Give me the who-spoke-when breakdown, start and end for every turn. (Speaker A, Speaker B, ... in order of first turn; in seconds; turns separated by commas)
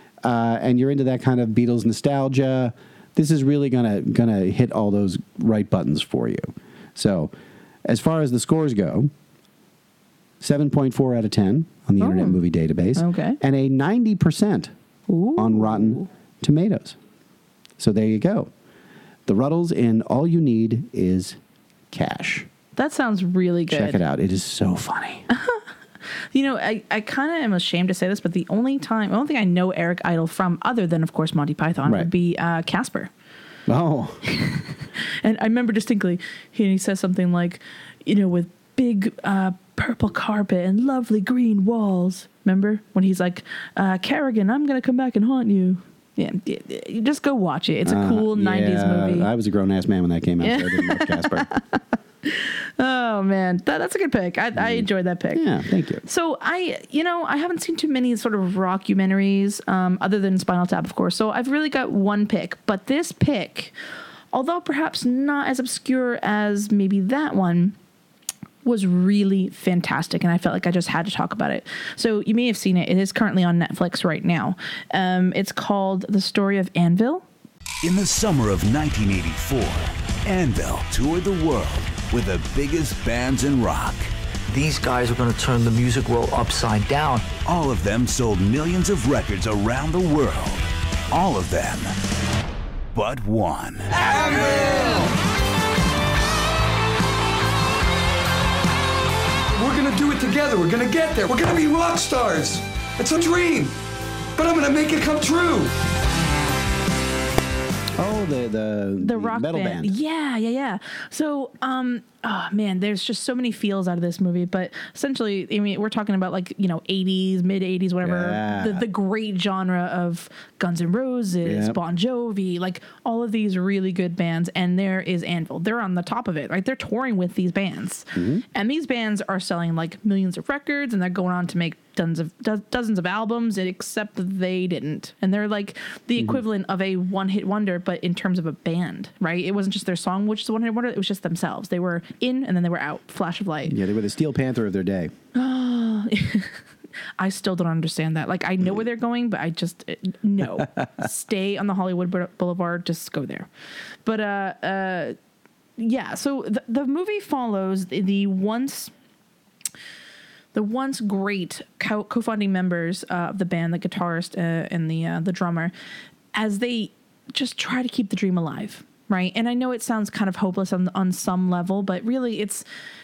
Speaker A: 0.2-7.3, Speaker A: 7.8-9.1, Speaker A: 10.4-14.7, Speaker B: 12.0-12.4, Speaker B: 12.9-13.4, Speaker B: 15.1-16.1, Speaker A: 15.3-17.0, Speaker A: 17.8-18.5, Speaker A: 19.3-21.4, Speaker A: 21.9-22.5, Speaker B: 22.8-24.0, Speaker A: 23.7-25.2, Speaker B: 25.3-25.6, Speaker B: 26.3-33.1, Speaker A: 31.8-32.1, Speaker A: 33.7-34.2, Speaker B: 34.3-49.3, Speaker A: 47.9-51.5, Speaker B: 50.4-55.4, Speaker A: 54.5-56.0, Speaker B: 56.0-63.7, Speaker B: 64.3-67.8, Speaker B: 68.6-77.2, Speaker C: 77.8-84.1, Speaker D: 84.5-87.3, Speaker C: 87.4-91.9, Speaker C: 92.9-94.0, Speaker E: 94.0-95.1, Speaker E: 99.5-103.8, Speaker E: 104.3-105.7, Speaker A: 108.0-109.9, Speaker B: 109.0-143.8, Speaker A: 118.0-118.8, Speaker A: 121.4-121.8, Speaker A: 128.1-128.4, Speaker A: 143.7-145.1, Speaker B: 145.3-146.6, Speaker B: 147.2-153.5, Speaker B: 154.1-155.2, Speaker B: 155.8-158.9, Speaker B: 160.5-165.7, Speaker B: 166.3-172.6